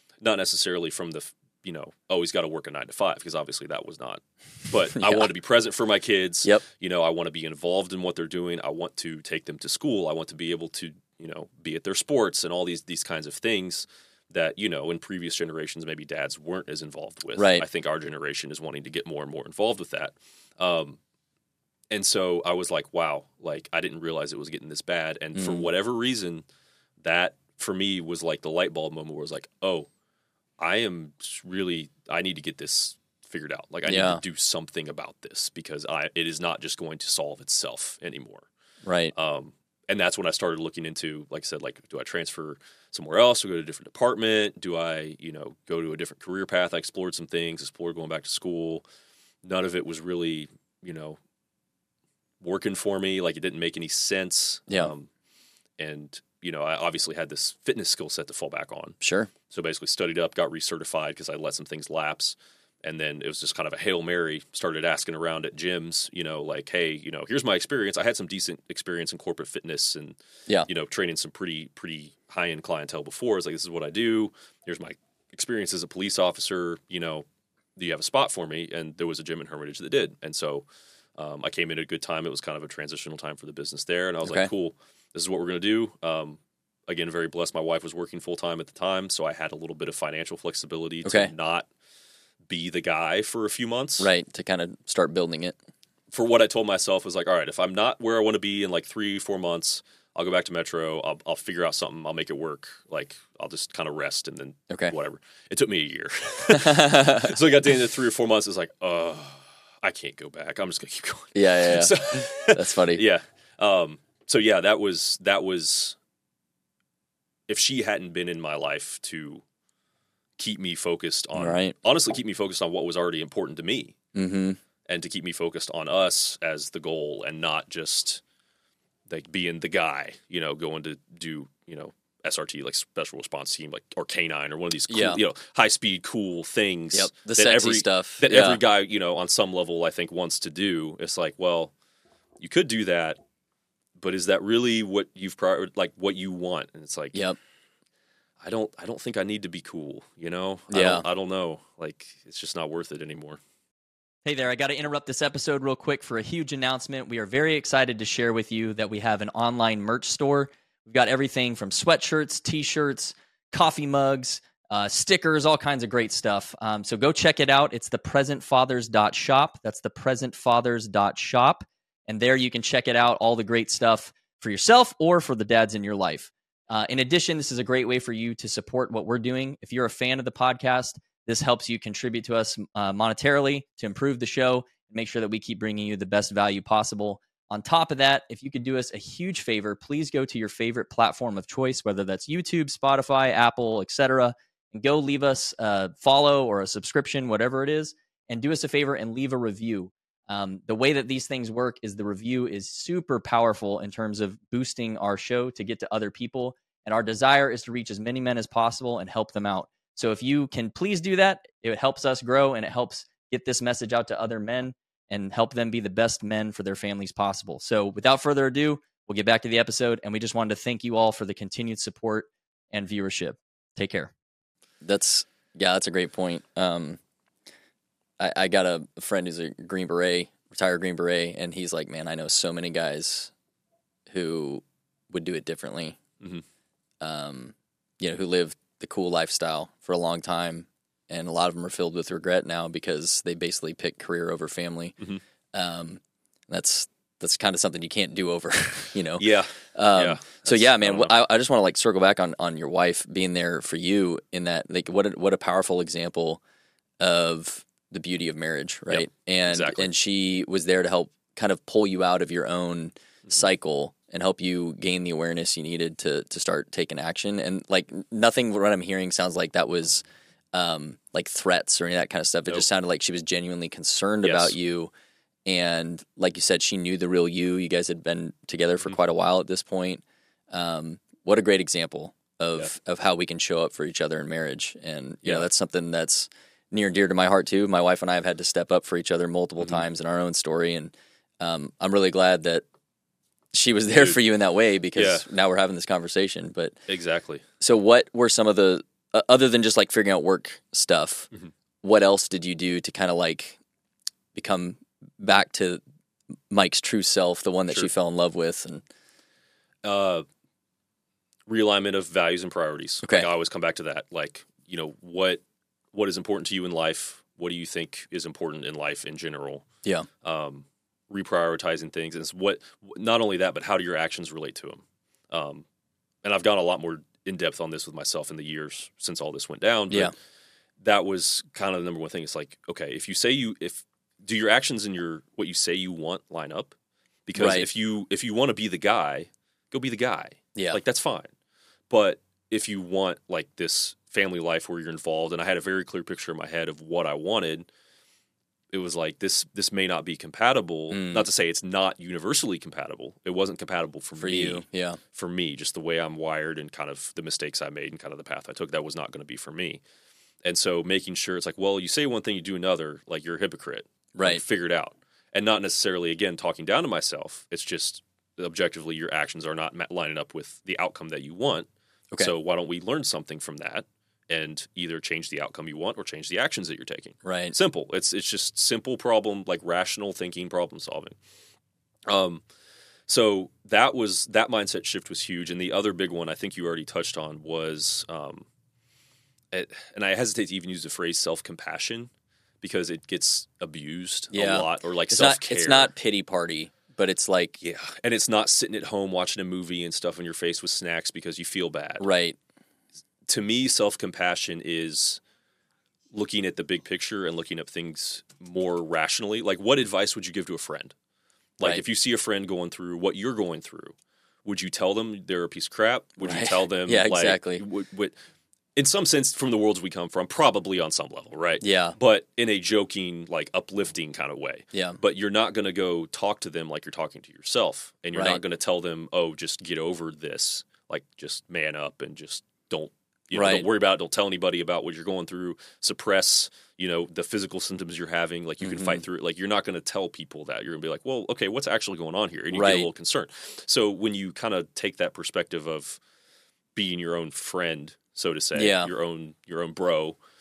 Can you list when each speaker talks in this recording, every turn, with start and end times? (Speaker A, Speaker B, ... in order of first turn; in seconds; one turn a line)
Speaker A: 0.2-21.0
Speaker B: 4.9-5.3
Speaker B: 17.4-17.7
Speaker A: 21.9-26.4
Speaker B: 25.4-25.7
Speaker A: 27.0-29.9
Speaker A: 30.6-38.5
Speaker B: 33.9-34.2
Speaker B: 38.8-39.1
Speaker A: 39.1-48.8
Speaker A: 49.4-51.2
Speaker A: 52.4-55.1
Speaker A: 55.8-59.0
Speaker B: 59.0-59.3
Speaker A: 59.5-80.7
Speaker A: 81.2-91.7
Speaker B: 84.2-84.5
Speaker B: 91.0-91.3
Speaker A: 92.5-94.1
Speaker B: 94.0-95.6
Speaker A: 96.1-116.0
Speaker B: 106.5-107.3
Speaker B: 111.3-113.0
Speaker A: 117.5-119.4
Speaker A: 120.4-124.0
Speaker B: 121.3-121.8
Speaker B: 124.2-124.6
Speaker A: 124.9-128.2
Speaker A: 129.1-141.7
Speaker B: 134.9-135.2
Speaker B: 136.9-138.6
Speaker A: 142.4-143.2
Speaker A: 144.0-147.2
Speaker A: 148.4-153.4
Speaker B: 150.7-151.1
Speaker B: 154.2-224.1
Speaker B: 224.8-227.0
Speaker B: 228.2-233.3
Speaker B: 234.1-236.0
Speaker B: 237.0-245.0
Speaker B: 245.5-256.4
Speaker A: 249.2-251.1
Speaker B: 257.0-270.0
Speaker A: 258.9-259.9
Speaker B: 270.5-274.9
Speaker A: 274.2-274.6
Speaker B: 275.5-292.6
Speaker B: 293.5-296.8
Speaker A: 295.0-295.3
Speaker A: 296.9-297.4
Speaker B: 297.6-301.3
Speaker B: 301.8-303.6
Speaker B: 304.3-305.8
Speaker B: 306.5-308.8
Speaker A: 309.8-310.2
Speaker A: 311.5-315.4
Speaker B: 313.0-313.3
Speaker A: 315.9-319.6
Speaker A: 320.2-325.7
Speaker A: 326.2-330.1
Speaker A: 330.8-336.8
Speaker A: 337.3-341.3
Speaker B: 337.4-337.7
Speaker B: 340.6-340.8
Speaker A: 341.9-347.7
Speaker A: 348.7-359.8
Speaker B: 350.9-351.3
Speaker B: 354.2-355.0
Speaker A: 360.4-381.2
Speaker B: 364.1-364.4
Speaker B: 377.2-377.6
Speaker A: 382.1-382.4
Speaker A: 383.1-388.5
Speaker A: 389.5-395.9
Speaker B: 394.3-397.6
Speaker A: 397.6-402.0
Speaker B: 402.0-402.4
Speaker A: 403.3-405.2
Speaker A: 406.1-410.9
Speaker A: 411.6-418.1
Speaker B: 416.2-417.6
Speaker A: 418.8-446.0
Speaker B: 421.6-422.0
Speaker B: 424.7-425.0
Speaker B: 428.1-428.4
Speaker B: 433.3-433.7
Speaker B: 438.6-439.0
Speaker B: 442.5-442.9
Speaker A: 446.8-450.2
Speaker B: 448.6-448.9